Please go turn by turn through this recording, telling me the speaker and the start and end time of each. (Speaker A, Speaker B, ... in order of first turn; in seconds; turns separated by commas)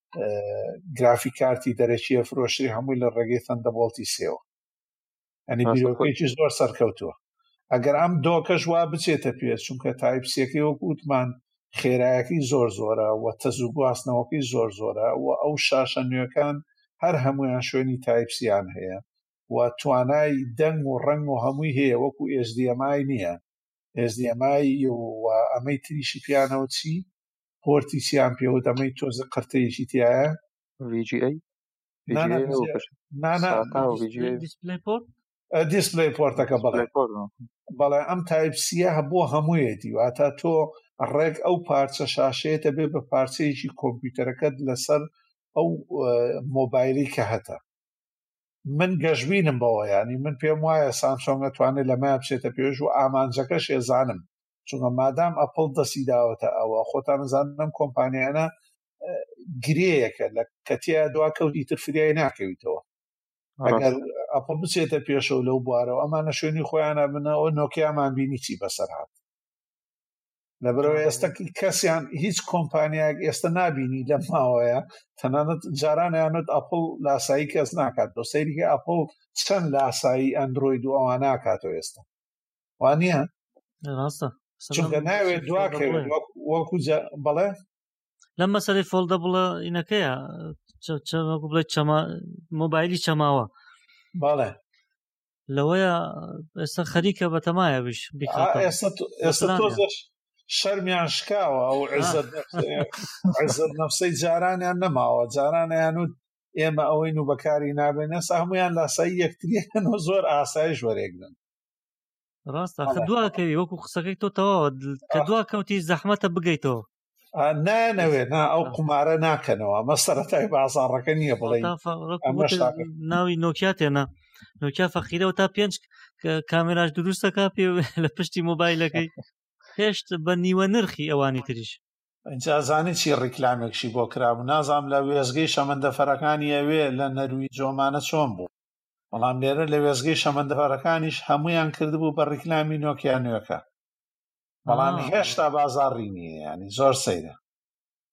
Speaker A: 0.2-4.4, Speaker A: 5.5-7.1, Speaker B: 5.6-6.1, Speaker A: 7.7-23.4, Speaker A: 24.0-27.1, Speaker A: 27.6-30.4, Speaker B: 30.8-31.4, Speaker A: 32.1-33.8, Speaker B: 32.1-34.4, Speaker C: 33.8-35.0, Speaker A: 35.6-36.9, Speaker B: 36.3-37.5, Speaker A: 37.7-45.0, Speaker A: 45.5-47.6, Speaker A: 48.7-58.5, Speaker A: 59.0-62.8, Speaker B: 63.6-63.9, Speaker A: 63.6-69.1, Speaker A: 70.6-82.0, Speaker C: 70.8-71.3, Speaker A: 82.8-83.2, Speaker C: 83.9-86.1, Speaker A: 84.7-87.5, Speaker C: 88.4-93.5, Speaker A: 94.2-94.5, Speaker C: 95.5-98.7, Speaker A: 98.3-111.3, Speaker C: 99.2-99.8, Speaker C: 102.0-102.7, Speaker C: 112.5-116.8, Speaker A: 112.8-113.1, Speaker A: 117.4-122.9, Speaker C: 118.0-118.8, Speaker C: 121.4-124.1, Speaker C: 124.6-129.1, Speaker C: 129.8-131.8, Speaker A: 132.3-138.5, Speaker A: 139.1-143.6, Speaker C: 144.7-145.4, Speaker A: 144.7-147.3